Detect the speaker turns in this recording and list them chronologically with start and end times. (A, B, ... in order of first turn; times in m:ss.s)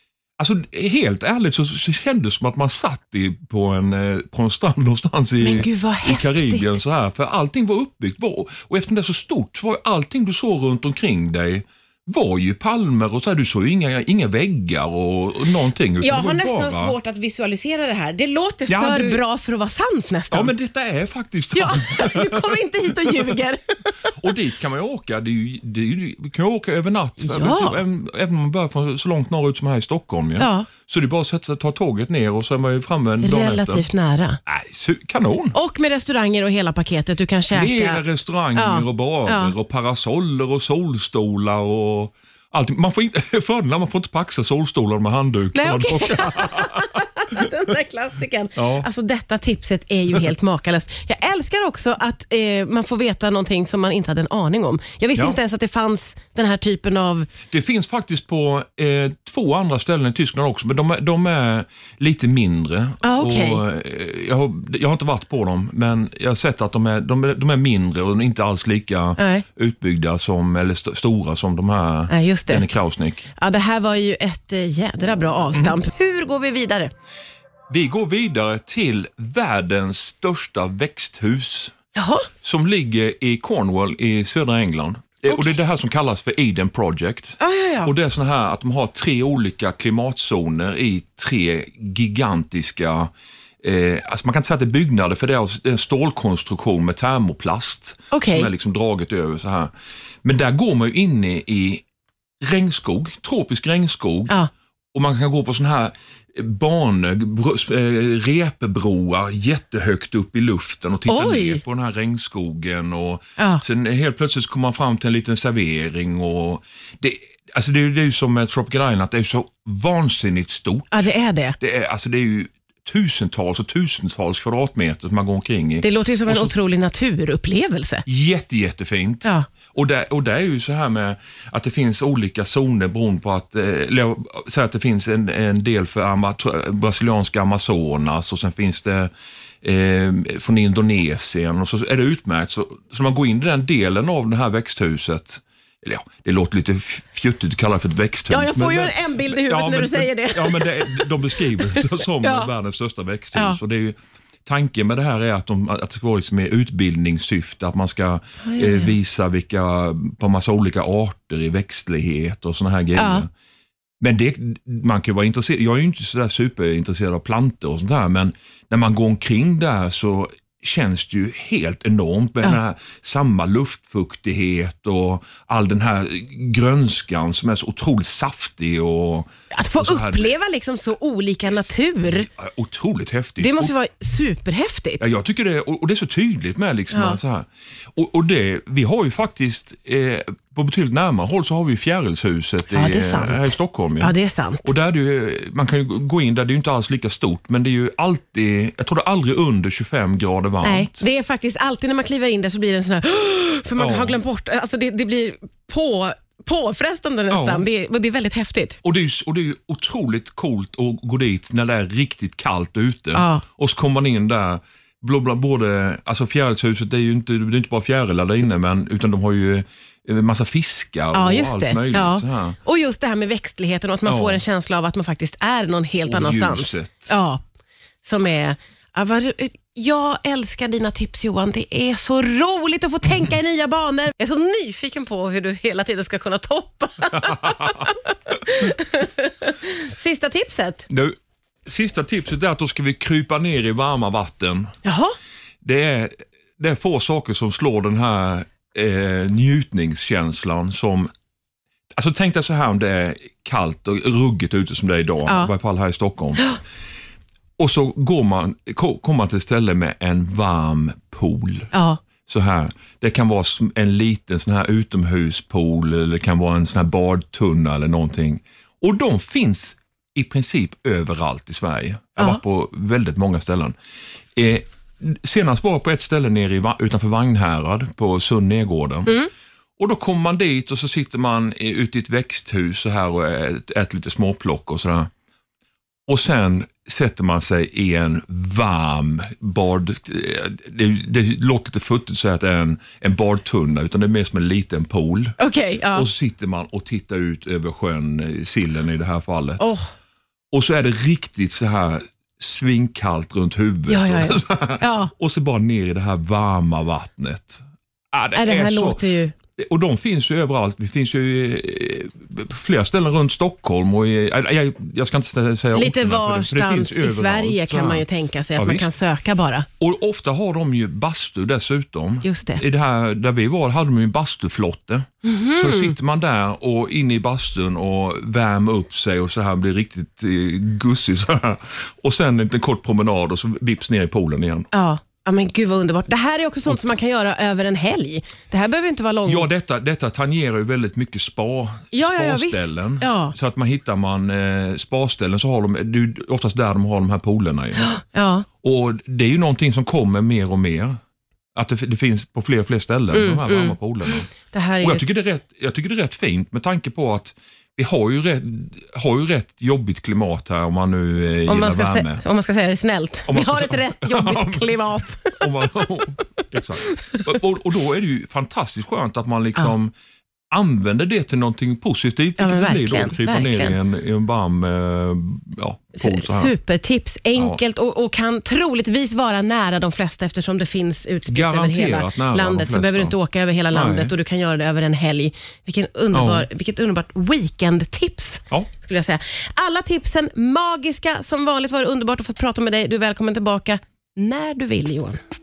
0:00.4-0:17.0 A
0:05.4-0:06.8 B
0:16.0-0:20.5 B
0:18.7-0:19.2 A
0:20.3-0:23.4 A
0:21.5-0:24.2 B
0:24.2-0:33.8 A
0:27.2-0:27.8 B
0:30.4-0:30.7 B
0:33.2-0:34.4 B
0:34.4-0:35.5 A
0:35.5-0:38.0 B
0:37.5-0:47.5 A
0:38.5-0:39.5 B
0:45.5-0:57.3 B
0:48.6-0:48.9 A
0:57.5-1:13.3 A
1:03.0-1:03.6 B
1:09.2-1:09.4 B
1:12.1-1:12.6 B
1:13.4-1:16.9 B
1:17.7-1:21.7 A
1:21.9-1:22.3 B
1:22.4-1:33.1 A
1:25.3-1:25.5 B
1:27.4-1:27.9 B
1:33.6-1:39.7 A
1:38.1-1:38.5 B
1:40.2-1:41.8 A
1:42.4-1:44.3 A
1:44.9-2:00.9 A
1:51.1-1:51.6 B
1:53.4-1:53.6 B
2:00.9-2:01.6 B
2:01.6-2:06.5 A
2:05.8-2:08.0 B
2:08.0-2:19.1 A
2:19.6-2:43.3 A
2:28.3-2:32.5 B
2:38.4-2:38.9 B
2:43.0-2:43.2 B
2:44.0-3:00.3 A
2:59.5-3:02.3 B
3:01.5-3:03.7 A
3:03.4-3:05.0 B
3:05.0-3:14.1 A
3:06.9-3:07.2 B
3:12.7-3:14.6 B
3:14.6-3:21.0 A
3:20.6-3:28.8 B
3:23.8-3:24.2 A
3:27.3-3:27.6 A
3:28.8-3:42.6 A
3:33.1-3:33.4 B
3:41.1-3:47.4 B
3:44.0-3:44.4 A
3:46.1-3:47.1 A
3:48.0-4:00.8 B
3:57.1-3:57.9 A
4:00.9-4:01.1 A
4:01.6-4:04.7 A
4:04.8-4:05.2 B
4:05.6-4:11.1 A
4:11.9-4:16.4 A
4:15.2-4:15.5 B
4:17.6-4:21.7 A
4:21.7-4:22.0 B
4:22.2-4:33.7 A
4:34.4-4:39.2 A
4:39.8-4:45.1 A
4:46.1-4:55.4 A
4:55.4-4:56.1 B
4:55.9-4:59.7 A
4:59.6-4:59.8 B
5:00.5-5:07.6 A
5:03.9-5:05.1 B
5:08.1-5:09.0 A
5:08.3-5:09.3 B
5:09.6-5:18.0 A
5:15.7-5:19.7 B
5:18.6-5:18.9 A
5:19.8-5:34.7 A
5:22.2-5:22.6 B
5:25.2-5:26.0 B
5:34.7-5:39.5 B
5:39.2-5:47.9 A
5:41.9-5:43.3 B
5:47.8-5:48.4 B
5:48.6-5:51.0 A
5:51.5-5:54.3 A
5:53.1-5:55.1 B
5:54.8-6:02.2 A
6:01.5-6:05.6 B
6:03.3-6:04.8 A
6:05.3-6:09.9 A
6:06.9-6:07.4 B
6:10.5-6:16.5 A
6:12.4-6:13.8 B
6:16.0-6:35.2 B
6:21.3-6:23.1 A
6:23.7-6:24.1 A
6:26.1-6:26.5 A